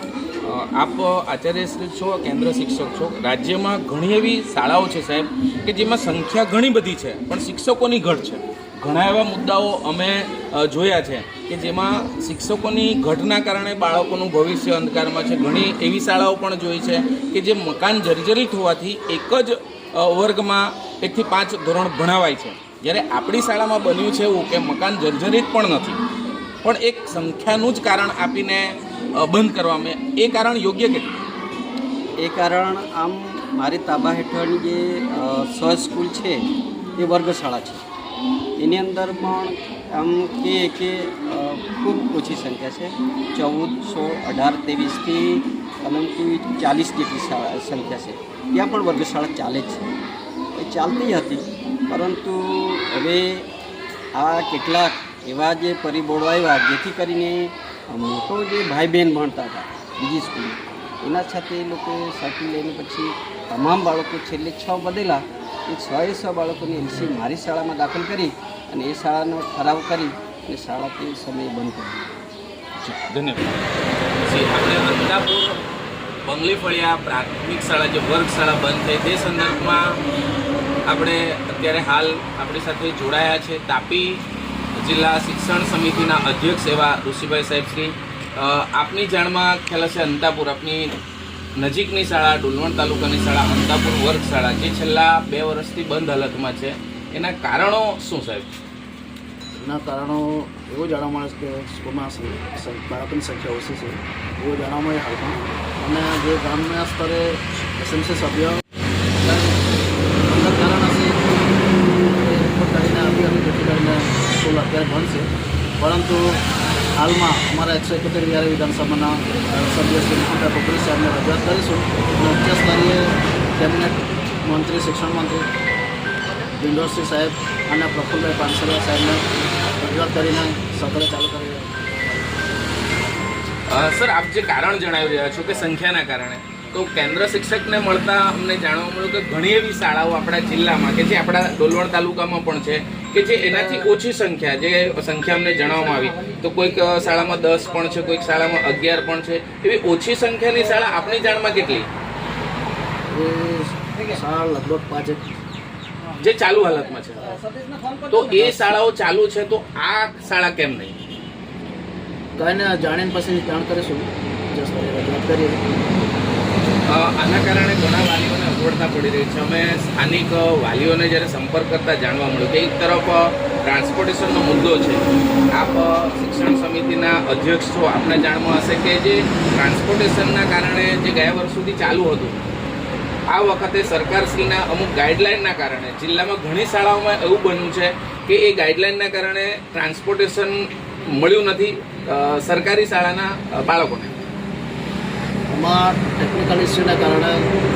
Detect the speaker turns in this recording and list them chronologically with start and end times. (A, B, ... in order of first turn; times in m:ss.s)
0:00.4-0:26.0 A
0:26.6-0:31.2 A
0:32.2-0:36.4 B
0:37.0-0:37.8 B
0:38.6-0:49.8 B
0:50.6-0:53.5 B
0:54.2-1:12.2 B
1:12.8-1:13.6 A
1:14.2-1:15.6 A
1:16.2-1:20.0 A
1:20.9-1:24.2 A
1:24.8-1:31.0 A
1:31.6-1:38.5 A
1:39.6-1:48.6 C
1:49.2-1:49.6 C
1:50.2-1:51.2 C
1:52.0-1:56.4 C
1:57.0-2:05.5 C
2:06.5-2:12.4 C
2:13.7-2:31.9 A
2:33.1-2:35.2 C
2:36.2-2:37.4 A
2:38.1-2:41.0 A
2:42.4-2:46.0 C
2:46.9-3:02.4 A
3:03.3-3:14.2 A
3:15.5-3:17.5 C